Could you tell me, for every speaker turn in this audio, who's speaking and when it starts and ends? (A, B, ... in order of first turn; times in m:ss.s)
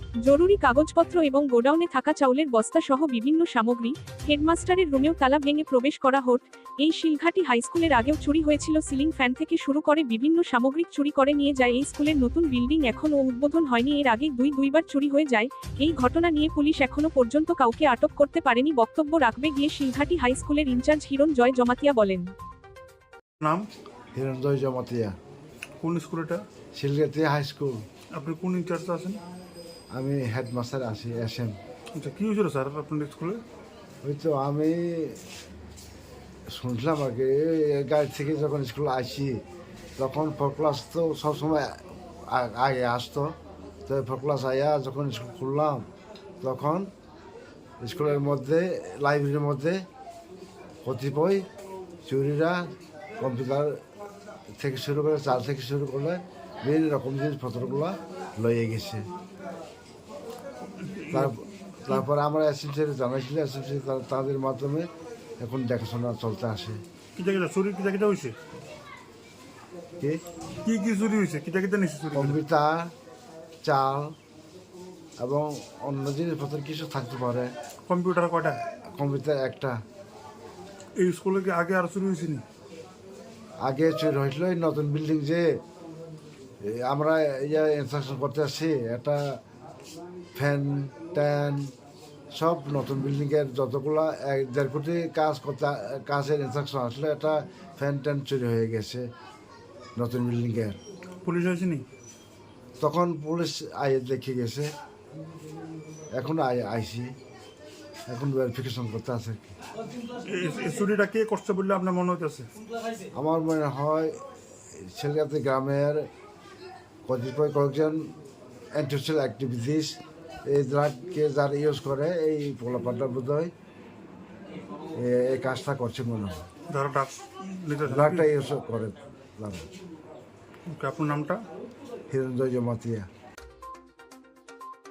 0:00.3-0:22.3 A
0:23.4-0:23.7 B
0:24.2-0:25.2 C
0:25.8-0:26.4 B
0:26.8-0:27.8 C
0:28.1-0:29.2 B
0:30.0-0:31.6 C
0:32.0-0:33.4 B
0:34.0-0:35.2 C
0:36.5-0:39.4 C
0:40.0-0:43.3 C
0:43.9-0:45.9 C
0:46.4-0:46.9 C
0:47.8-0:49.8 C
0:50.8-0:51.5 C
0:52.1-0:53.8 C
0:54.6-0:59.0 C
1:00.8-1:01.4 B
1:01.1-1:04.9 C
1:05.4-1:06.8 C
1:07.2-1:08.4 B
1:10.6-1:12.4 B
1:12.1-1:12.9 C
1:13.6-1:14.1 C
1:15.2-1:17.5 C
1:17.9-1:18.6 B
1:18.9-1:19.8 C
1:21.0-1:22.4 B
1:23.6-1:25.5 C
1:26.6-1:29.2 C
1:30.4-1:31.7 C
1:32.3-1:39.1 C
1:40.0-1:40.8 C
1:41.2-1:41.8 B
1:42.8-1:44.7 C
1:46.2-1:47.1 C
1:48.1-1:49.5 C
1:50.3-1:52.5 B
1:53.2-1:54.2 C
1:54.8-1:56.0 C
1:57.1-1:58.0 C
1:58.8-2:03.5 C
2:05.0-2:06.4 C
2:06.7-2:08.3 B
2:07.9-2:09.6 C
2:10.7-2:11.4 B
2:12.1-2:13.1 C